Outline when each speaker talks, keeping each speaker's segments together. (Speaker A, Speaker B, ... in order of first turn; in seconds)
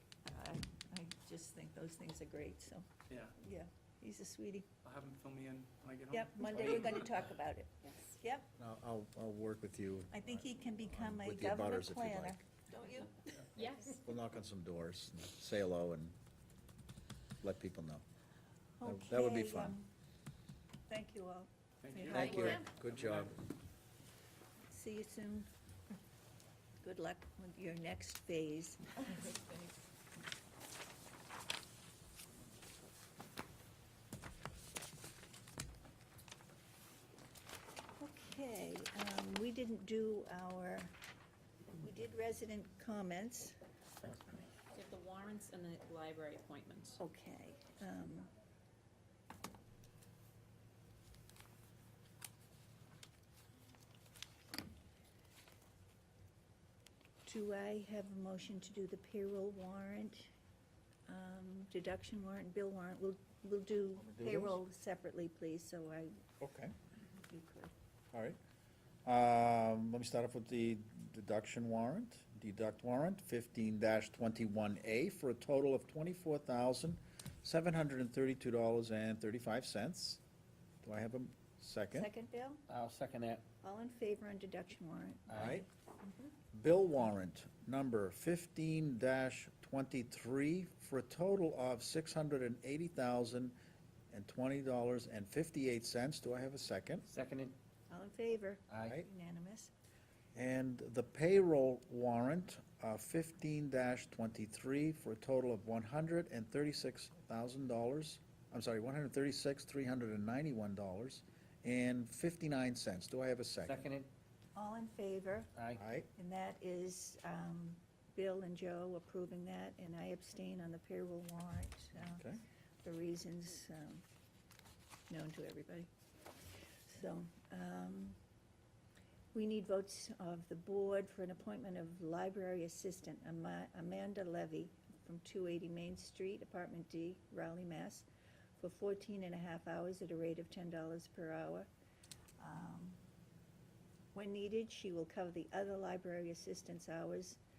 Speaker A: 0.3-4.7, 6.1-8.5, 10.1-13.5, 18.8-19.9, 20.9-22.7, 24.7-25.5, 26.8-29.7, 38.0-40.9, 41.8-43.6, 47.0-48.3, 57.2-60.3, 61.1-66.2, 67.2-67.7, 81.9-82.6, 83.6-85.7, 97.9-99.7, 114.5-115.5, 116.2-122.3, 122.8-124.0, 125.1-125.9, 126.9-128.2, 129.3-138.1, 138.6-141.7, 142.4-143.0, 144.1-147.4
Speaker B: 4.8-7.3, 21.8-23.4
Speaker C: 8.6-10.3, 10.9-12.4, 13.9-16.2, 17.4-18.0, 18.8-19.8, 22.1-23.4, 64.0-64.6, 66.4-66.7, 68.1-68.4, 69.0-80.2, 80.8-82.1, 85.4-85.7, 86.5-93.6, 94.1-97.1, 100.3-113.8, 115.8-116.1, 122.1-122.4
Speaker D: 13.6-14.0, 44.7-47.0
Speaker E: 82.7-83.4, 85.3-85.5, 97.1-97.5, 113.6-114.1, 115.6-115.8